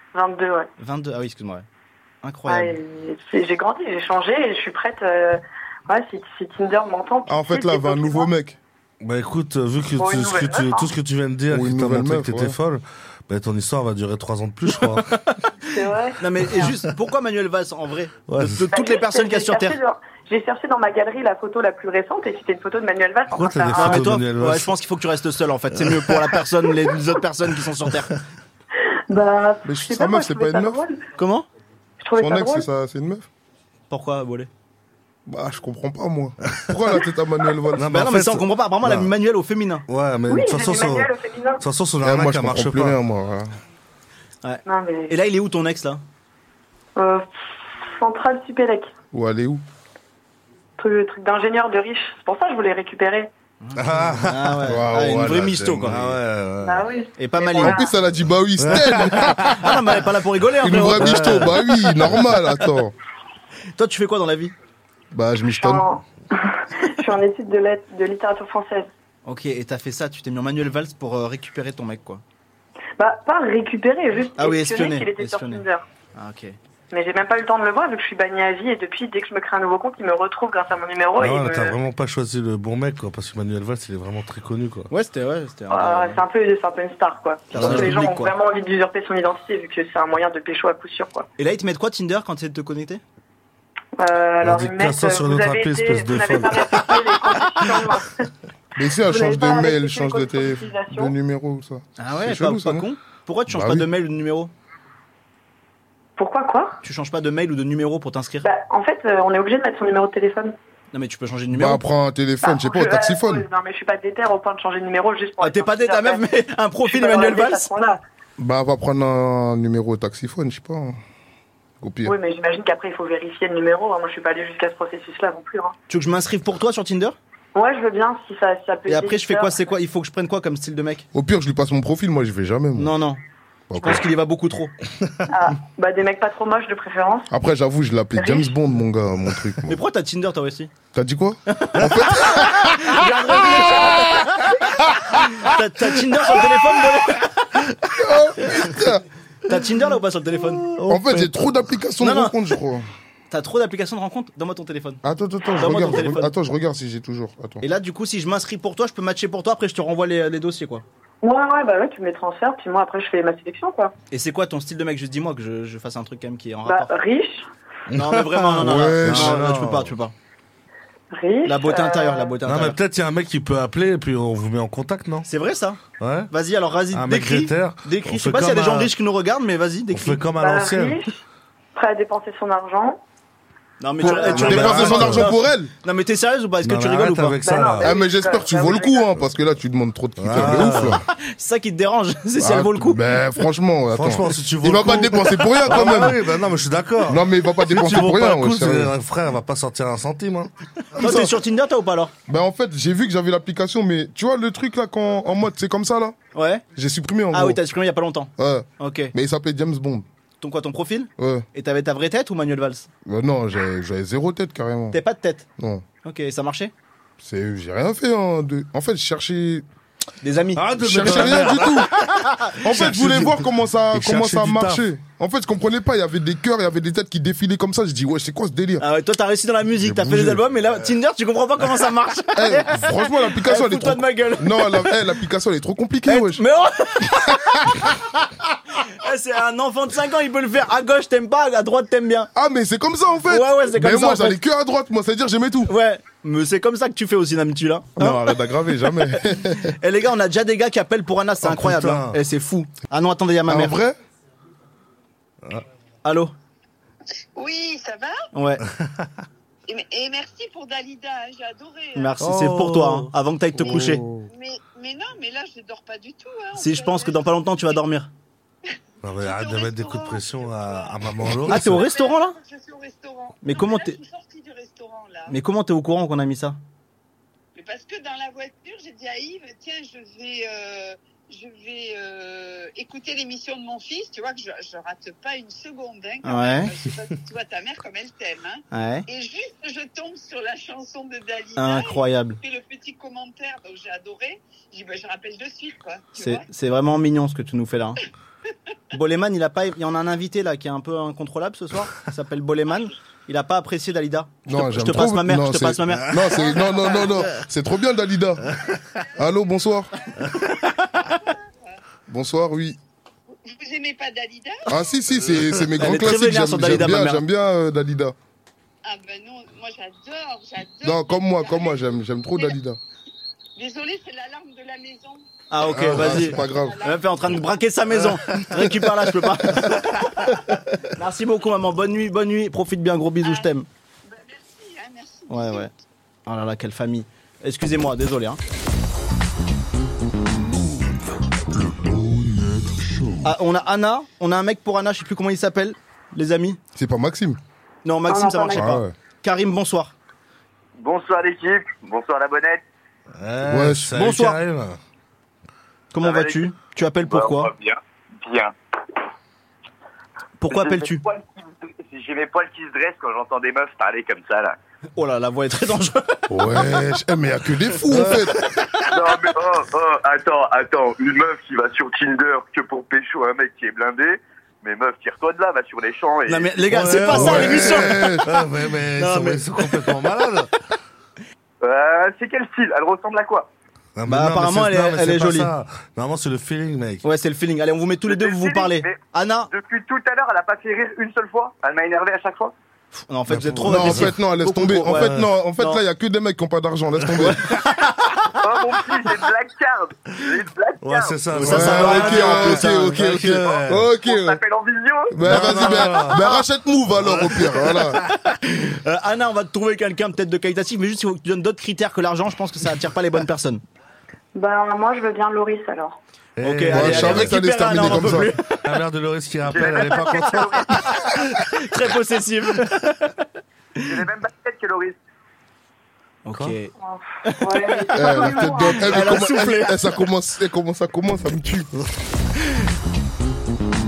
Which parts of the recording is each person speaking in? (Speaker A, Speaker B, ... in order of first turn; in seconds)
Speaker A: 0.1-0.7, 2.5-8.3, 10.0-10.9, 15.7-16.7, 18.7-24.2, 29.1-31.0, 32.0-32.7, 40.3-41.6, 44.6-45.1, 47.0-48.9, 50.8-53.3, 56.6-57.9, 65.5-68.9, 73.0-75.8, 76.9-81.8, 85.7-91.3, 94.0-98.2, 99.0-101.1, 106.2-106.8, 108.4-110.5, 112.4-116.3, 116.8-118.0, 122.0-125.8, 127.5-129.6, 135.3-137.3, 138.2-138.6, 161.2-163.9, 166.7-167.5, 171.1-172.3, 180.4-181.2, 181.8-183.0, 184.0-184.6, 187.4-189.2, 348.1-348.7, 414.4-416.0, 426.8-429.3
Speaker B: 0.8-1.6, 2.2-2.8, 14.9-15.3, 16.2-19.8, 23.7-28.2, 31.2-31.5, 33.9-34.5, 37.8-39.9, 44.4-46.0, 53.6-56.2, 57.2-57.8, 59.6-61.5, 63.8-64.5, 69.3-72.2, 74.4-76.6, 84.9-86.2, 87.5-88.3, 91.4-93.0, 102.0-104.5, 106.8-108.5, 110.9-111.8, 115.4-117.7, 125.9-127.2, 128.9-131.1, 132.8-133.2, 133.8-134.7, 139.7-140.7, 141.5-144.5, 145.1-147.7, 149.5-150.8, 152.0-152.4, 153.3-156.3, 157.6-160.8, 164.1-166.9, 167.9-170.1, 171.4-172.8, 175.2-180.3, 183.8-187.8, 190.9-193.0, 201.0-202.1, 206.3-206.7, 207.3-209.2, 210.4-212.9, 214.9-215.5, 216.0-216.7, 220.2-222.9, 228.8-234.9, 236.1-237.9, 238.8-242.3, 243.3-244.4, 245.7-253.8, 256.0-256.3, 258.3-258.6, 261.9-264.1, 266.6-268.1, 271.4-272.4, 273.4-274.0, 275.3-276.6, 286.2-286.7, 288.7-289.1, 291.6-292.4, 296.2-298.0, 298.9-306.4, 315.8-317.2, 325.5-330.0, 331.0-333.7, 335.3-335.7, 336.3-338.4, 343.2-346.6, 347.9-349.9, 353.9-354.4, 355.9-357.5, 360.4-361.0, 365.0-366.3, 376.3-378.1, 378.9-379.9, 384.1-385.5, 387.0-389.5, 392.9-395.8, 397.2-398.1, 401.3-402.9, 408.1-413.6, 416.4-418.5, 420.8-423.2, 426.2-426.7, 427.2-429.9
Speaker C: 7.3-8.6, 11.5-12.6, 29.6-30.8, 32.2-33.3, 35.3-38.0, 42.0-43.5, 49.1-49.6, 54.6-56.2, 57.6-59.8, 60.6-62.9, 65.1-65.9, 98.8-102.9, 103.6-103.8, 111.5-113.5, 118.4-121.0, 121.8-122.2, 131.1-132.9, 133.7-134.1, 137.3-139.8, 140.9-143.0, 147.9-149.0, 150.9-152.9, 155.0-157.7, 168.6-169.4, 184.0-185.7, 187.8-191.0, 192.4-196.3, 197.0-198.9, 202.3-206.2, 206.7-207.6, 208.4-210.1, 211.2-211.5, 213.1-215.0, 215.6-215.8, 217.2-219.7, 220.8-221.9, 222.6-228.9, 229.8-230.4, 232.4-236.4, 237.3-237.9, 242.3-245.7, 248.0-249.8, 253.5-254.0, 304.5-308.5, 309.2-309.9, 312.1-312.8, 314.7-318.1, 320.8-322.8, 325.8-326.9, 346.8-347.4, 348.6-348.9, 353.4-354.0, 366.3-368.4, 377.1-378.3, 393.7-397.5, 401.4-404.4, 405.1-408.0, 416.7-418.3, 427.9-431.7
Speaker D: 9.0-15.1, 18.2-18.7, 23.3-24.8, 25.8-26.4, 37.8-39.1, 39.9-43.0, 53.8-54.9, 55.8-56.9, 58.6-59.7, 61.0-61.6, 81.2-84.9, 87.6-87.9, 94.4-97.6, 150.5-151.4, 167.9-169.9, 172.5-175.3, 176.0-176.3, 176.9-178.9, 179.9-181.0, 184.3-185.3, 186.6-187.9, 190.2-191.0, 193.9-200.5, 220.6-222.1, 222.7-223.3, 223.9-224.8, 251.4-252.2, 262.2-264.3, 269.0-271.8, 306.1-306.4, 308.5-308.8, 325.8-326.1, 328.1-328.7, 353.2-354.8, 367.9-368.6, 376.7-380.5, 384.0-387.0, 393.3-394.1, 394.9-395.2, 400.8-403.9, 405.2-406.4, 406.9-408.1, 416.4-420.7
Speaker E: 257.4-258.2, 259.7-262.1, 263.7-267.8, 269.2-275.4, 277.6-296.5, 306.6-307.0, 310.1-311.8, 313.4-314.8, 318.9-322.6, 323.6-325.3, 326.4-327.4, 333.2-333.5, 334.1-335.7
Speaker F: 350.8-352.6, 356.0-356.5, 357.1-358.5, 360.5-364.6, 368.9-376.6, 381.6-383.5, 388.0-392.5, 398.4-401.3, 403.4-406.1, 419.4-421.2, 423.9-425.0